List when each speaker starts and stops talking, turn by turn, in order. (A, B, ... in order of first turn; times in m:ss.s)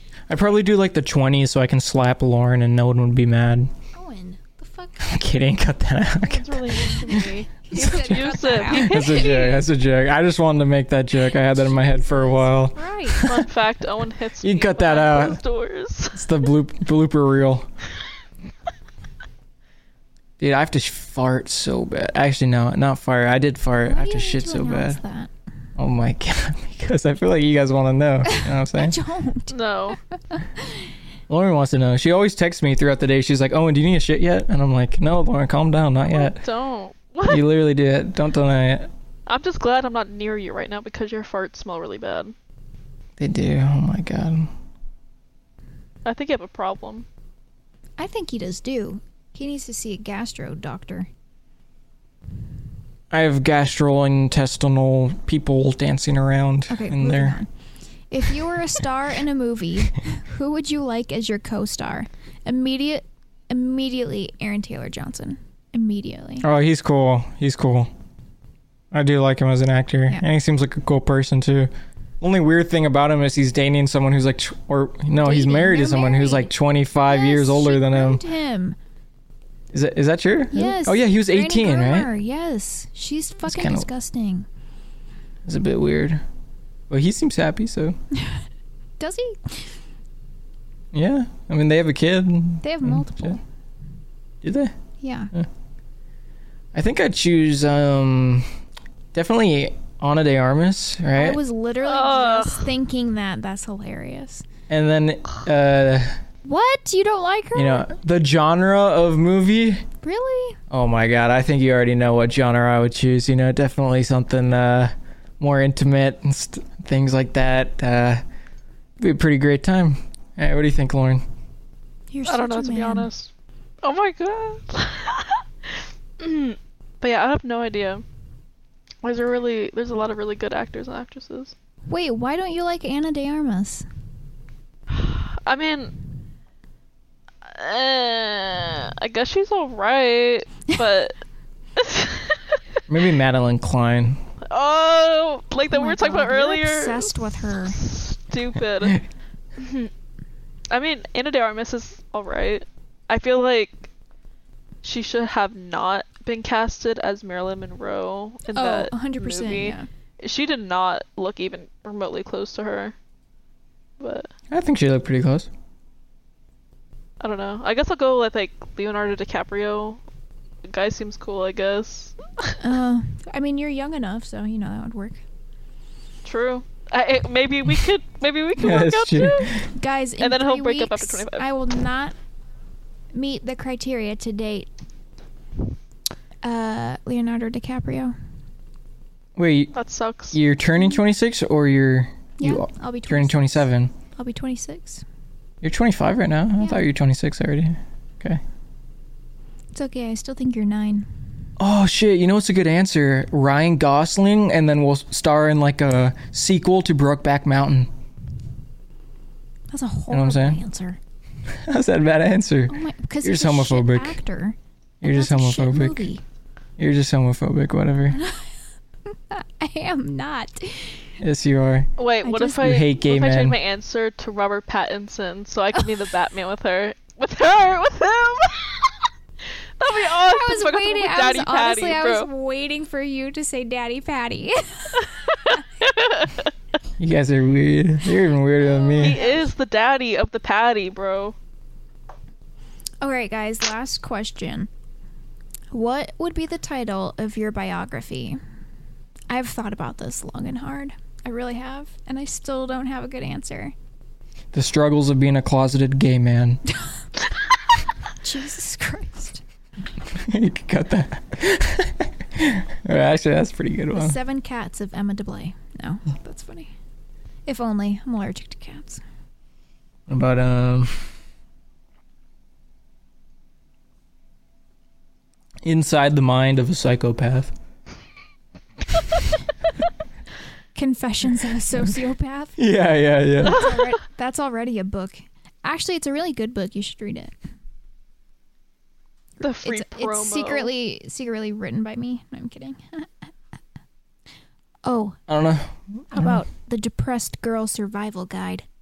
0:00.3-0:03.7 A
0:03.9-0:05.3 B
0:05.0-0:13.5 A
0:06.2-0:09.7 C
0:07.0-0:09.0 B
0:11.4-0:13.3 B
0:13.2-0:16.3 C
0:14.4-0:15.4 A
0:16.1-0:17.7 A
0:20.4-0:25.0 A
0:23.8-0:25.3 B
0:25.8-0:29.0 A
0:28.2-0:29.5 B
0:29.5-0:30.0 C
0:30.3-0:30.9 B
0:31.3-0:36.4 A
0:36.1-0:37.4 C
0:37.3-0:38.9 A
0:39.3-0:42.3 C
0:43.2-0:44.5 A
0:46.0-0:47.0 C
0:48.0-0:51.1 B
0:53.1-0:57.4 A
0:56.7-0:57.5 B
0:58.1-1:06.5 B
1:06.4-1:07.9 A
1:08.9-1:18.2 A
1:15.2-1:18.8 B
1:19.7-1:22.1 A
1:20.5-1:24.5 B
1:23.5-1:23.9 A
1:25.4-1:26.2 A
1:26.9-1:28.0 A
1:28.2-1:28.4 B
1:29.0-1:29.8 B
1:30.9-1:33.4 A
1:32.6-1:33.4 B
1:34.4-1:34.7 A
1:35.0-1:35.3 B
1:36.7-1:38.4 A
1:39.1-1:41.4 A
1:41.2-1:44.4 B
1:41.8-1:42.7 C
1:44.7-1:46.2 A
1:46.4-1:47.9 B
1:47.5-1:49.8 A
1:50.0-1:50.6 B
1:50.7-1:58.2 A
1:59.0-2:01.2 A
2:02.1-2:03.1 B
2:02.3-2:03.3 C
2:03.8-2:08.0 C
2:09.0-2:11.5 C
2:11.9-2:13.8 B
2:14.9-2:15.9 C
2:17.4-2:21.1 C
2:21.8-2:22.6 C
2:22.9-2:24.2 A
2:24.5-2:29.0 C
2:25.7-2:27.8 B
2:29.6-2:29.9 C
2:30.7-2:33.9 C
2:34.8-2:42.9 C
2:38.5-2:39.9 B
2:44.0-2:44.3 C
2:44.5-2:45.5 A
2:47.2-2:50.0 C
2:50.6-2:52.6 C
2:52.6-2:55.2 B
2:56.2-2:59.6 C
2:58.6-2:59.7 A
2:59.6-3:02.2 B
3:00.2-3:01.5 C
3:03.1-3:04.7 B
3:06.4-3:08.1 B
3:09.4-3:09.7 A
3:09.7-3:10.4 C
3:10.3-3:13.9 A
3:12.4-3:13.6 B
3:14.1-3:15.0 B
3:15.6-3:18.4 A
3:16.6-3:16.8 B
3:19.7-3:21.1 B
3:21.6-3:27.9 A
3:29.7-3:31.0 B
3:30.1-3:30.6 A
3:31.5-3:34.2 A
3:32.7-3:36.2 B
3:35.0-3:36.1 A
3:36.8-3:38.2 A
3:38.1-3:38.4 B
3:39.1-3:41.1 B
3:41.2-3:41.9 A
3:42.0-3:49.0 C
3:42.2-3:42.8 B
3:42.6-3:43.6 A
3:49.8-3:52.3 C
3:50.1-3:55.5 B
3:55.3-3:56.5 C
3:57.0-3:59.2 A
3:58.6-3:59.5 B
3:59.0-4:01.4 C
4:03.0-4:04.7 B
4:05.7-4:08.4 B
4:09.3-4:13.7 B
4:14.5-4:16.6 A
4:18.2-4:19.4 B
4:20.1-4:24.2 A
4:23.9-4:26.7 B
4:27.4-4:29.0 B
4:30.1-4:31.1 A
4:35.6-4:37.5 A
4:40.7-4:42.6 B
4:42.6-4:43.6 A
4:43.4-4:47.3 B
4:43.5-4:43.9 C
4:49.4-4:50.7 C
4:49.6-4:53.3 B
4:54.8-4:55.2 B
4:55.3-4:56.4 A
4:56.1-4:58.6 B